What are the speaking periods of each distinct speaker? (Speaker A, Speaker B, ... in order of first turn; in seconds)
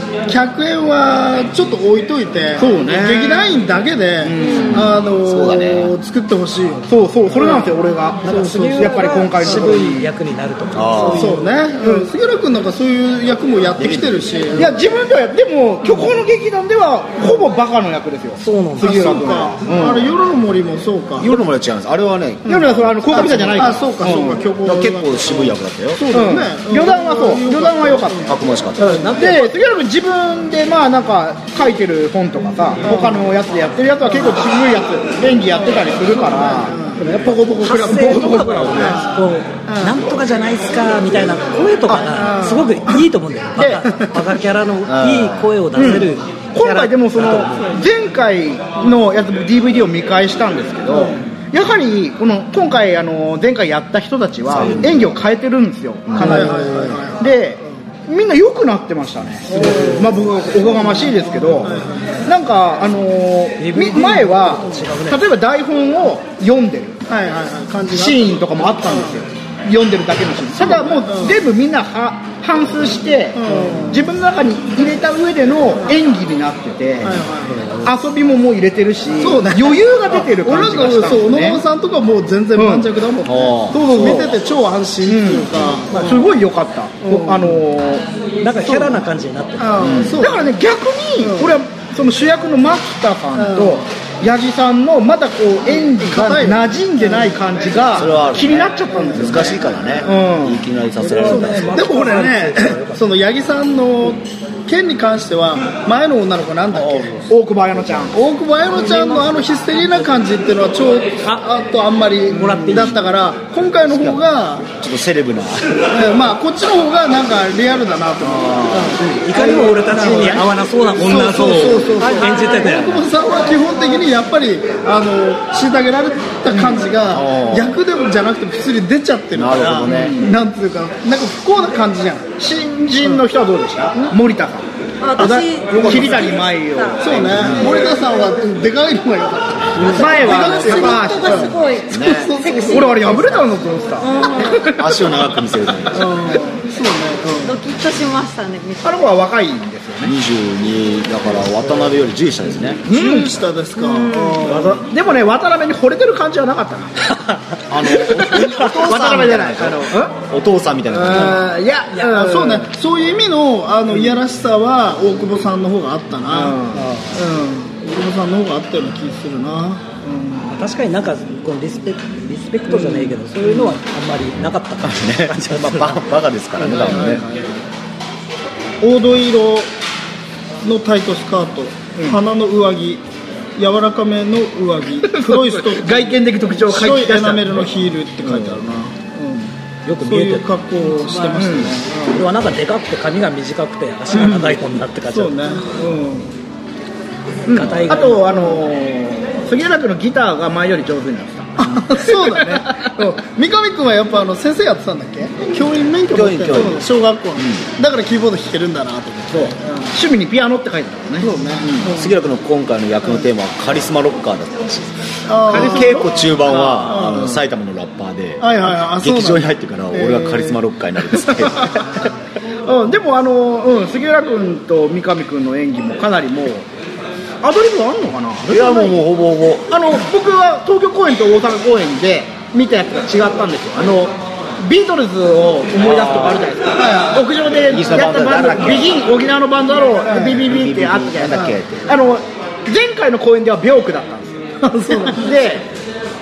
Speaker A: 0.3-7.7, 8.2-9.8, 11.1-14.8, 17.2-17.4, 18.8-21.3, 22.5-29.1, 32.8-33.3, 34.1-34.4, 35.5-37.0, 38.7-39.1, 39.7-40.0, 41.9-43.0, 50.9-51.3, 56.1-57.4, 59.5-62.3, 67.1-69.2, 70.6-71.4, 73.3-74.1, 77.0-77.6, 79.2-86.3, 87.0-87.6, 89.6-90.5, 91.2-91.6, 93.3-93.8, 96.0-97.4, 98.0-99.6, 101.1-107.2, 108.1-114.7, 115.9-132.3, 135.7-136.1, 137.0-143.3, 145.9-147.6, 152.9-154.8, 161.1-170.5, 176.6-177.5, 178.8-179.7, 180.6-183.0, 183.6-189.5, 190.0-192.3, 195.1-196.2, 198.3-198.6, 201.6-209.9, 211.2-212.2, 215.3-217.3, 218.4-220.6, 236.7-237.2, 240.1-240.5, 244.6-245.3
Speaker B: 2.6-3.6, 4.2-4.9, 6.9-10.1, 11.8-12.1, 14.5-20.1, 22.5-24.4, 26.1-28.4, 29.1-39.0, 41.9-42.2, 43.6-43.9, 45.7-67.0, 67.9-77.2, 77.8-81.6, 82.6-82.9, 83.7-84.4, 85.0-89.1, 90.2-100.7, 107.3-108.2, 119.9-120.4, 121.0-121.8, 126.5-126.8, 129.8-130.3, 132.4-134.7, 135.2-137.8, 139.8-141.7, 142.6-145.2, 148.8-150.1, 152.9-153.4, 154.4-157.1, 157.9-160.2, 160.9-162.7, 166.3-167.7, 172.8-173.1, 176.7-177.2, 185.1-188.6, 191.4-191.8, 197.5-203.1, 209.3-211.8, 215.5-217.4, 222.7-226.7, 227.4-229.0, 229.7-245.7
Speaker C: 5.2-5.9, 10.7-11.4, 13.8-14.3, 21.2-23.9, 24.6-26.0, 28.3-29.1, 44.9-45.5, 54.5-55.1, 56.1-56.4, 77.0-77.8, 83.2-84.2, 89.8-90.2, 98.0-98.6, 99.1-101.9, 106.7-108.1, 113.8-115.9, 118.2-119.0, 127.1-127.8, 129.3-130.2, 137.3-137.9, 141.8-142.3, 144.7-146.1, 150.0-152.8, 157.7-161.4, 174.8-177.2, 206.1-207.6, 211.6-222.1, 228.4-229.7, 235.7-236.5, 237.6-239.0, 240.4-242.0
Speaker D: 8.2-11.5, 18.4-19.1, 28.8-29.6, 37.0-47.8, 63.6-65.2, 85.9-86.2, 88.4-89.9, 101.0-103.0, 108.7-110.3, 112.3-113.0, 118.7-123.1, 170.5-176.0, 189.9-195.8, 197.5-198.4
Speaker E: 135.0-137.0, 139.8-143.4, 144.0-144.8, 147.4-149.1, 153.8-154.6